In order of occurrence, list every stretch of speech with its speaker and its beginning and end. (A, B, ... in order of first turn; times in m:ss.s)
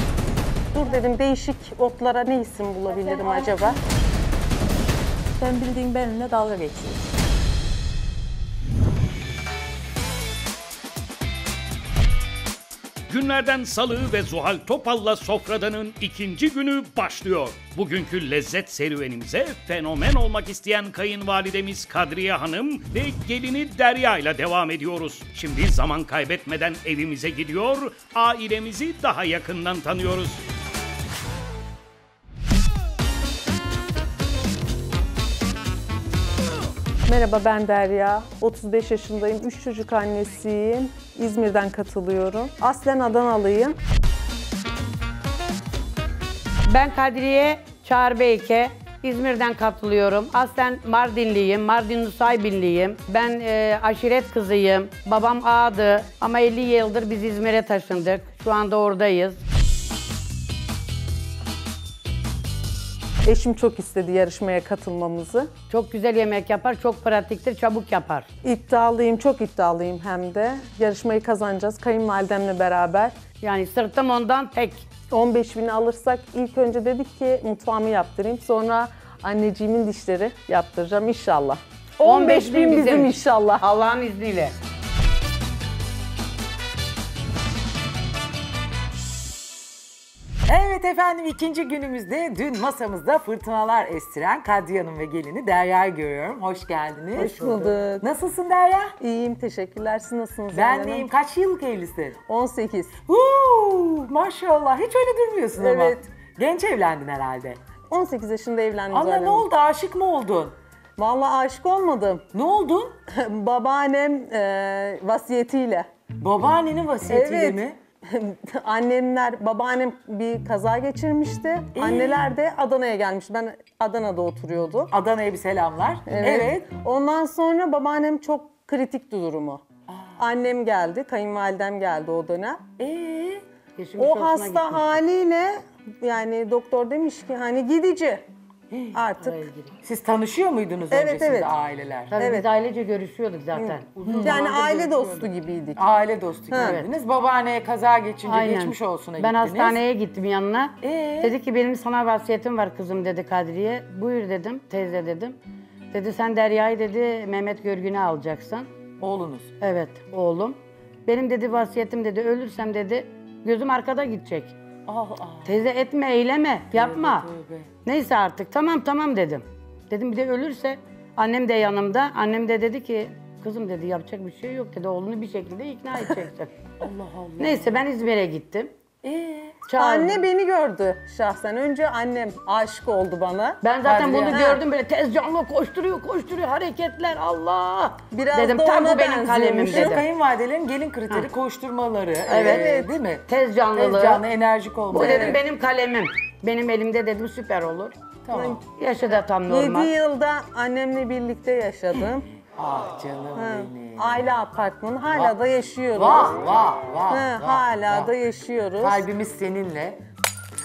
0:00.7-0:03.8 A
0:02.9-0:03.7 B
0:05.4-0:07.1 B
0:13.1-0:30.4 C
0:37.1-0:43.8 A
0:46.7-0:59.4 D
1:03.2-1:05.5 A
1:05.7-1:08.3 D
1:08.4-1:13.1 A
1:13.4-1:14.9 D
1:15.1-1:23.6 A
1:22.0-1:24.5 D
1:30.5-1:38.9 E
1:37.1-1:38.1 A
1:39.0-1:41.1 A
1:40.5-1:42.2 E
1:42.3-1:42.9 A
1:43.1-1:47.6 E
1:45.5-1:46.0 A
1:47.9-1:49.5 A
1:48.9-1:50.5 E
1:51.0-1:52.2 A
1:52.3-1:52.9 E
1:53.1-1:55.9 A
1:56.2-1:57.8 E
1:57.1-2:04.9 A
2:01.7-2:02.2 E
2:04.9-2:06.7 E
2:06.1-2:09.6 A
2:09.9-2:10.1 E
2:10.2-2:12.7 A
2:12.8-2:13.4 E
2:13.8-2:14.9 D
2:14.0-2:18.2 A
2:18.7-2:19.0 E
2:18.9-2:19.4 A
2:19.3-2:19.7 D
2:19.8-2:22.1 E
2:20.9-2:21.5 A
2:22.1-2:25.2 D
2:22.2-2:22.4 A
2:23.5-2:25.9 A
2:24.0-2:24.6 E
2:25.8-2:29.8 E
2:26.5-2:26.8 A
2:26.6-2:26.8 D
2:28.2-2:35.4 D
2:30.8-2:31.4 E
2:35.9-2:38.7 D
2:39.0-2:39.5 E
2:39.6-2:44.6 D
2:44.9-2:45.5 E
2:45.4-2:47.3 D
2:46.7-2:47.7 E
2:47.8-2:56.5 D
2:56.8-2:57.7 E
2:57.4-2:58.7 D
2:59.0-2:59.6 E
2:59.6-3:00.1 D
2:59.7-3:03.6 A
3:03.6-3:10.0 D
3:03.8-3:04.5 E
3:04.2-3:04.6 A
3:08.1-3:10.0 A
3:09.7-3:15.4 E
3:12.3-3:13.0 A
3:12.3-3:12.7 D
3:13.3-3:14.2 D
3:14.9-3:17.9 D
3:15.0-3:15.3 A
3:18.3-3:18.6 E
3:18.3-3:18.6 A
3:18.6-3:19.9 D
3:19.5-3:22.2 A
3:22.6-3:24.2 E
3:23.3-3:26.4 A
3:25.9-3:28.1 E
3:27.1-3:29.0 A
3:28.8-3:30.0 E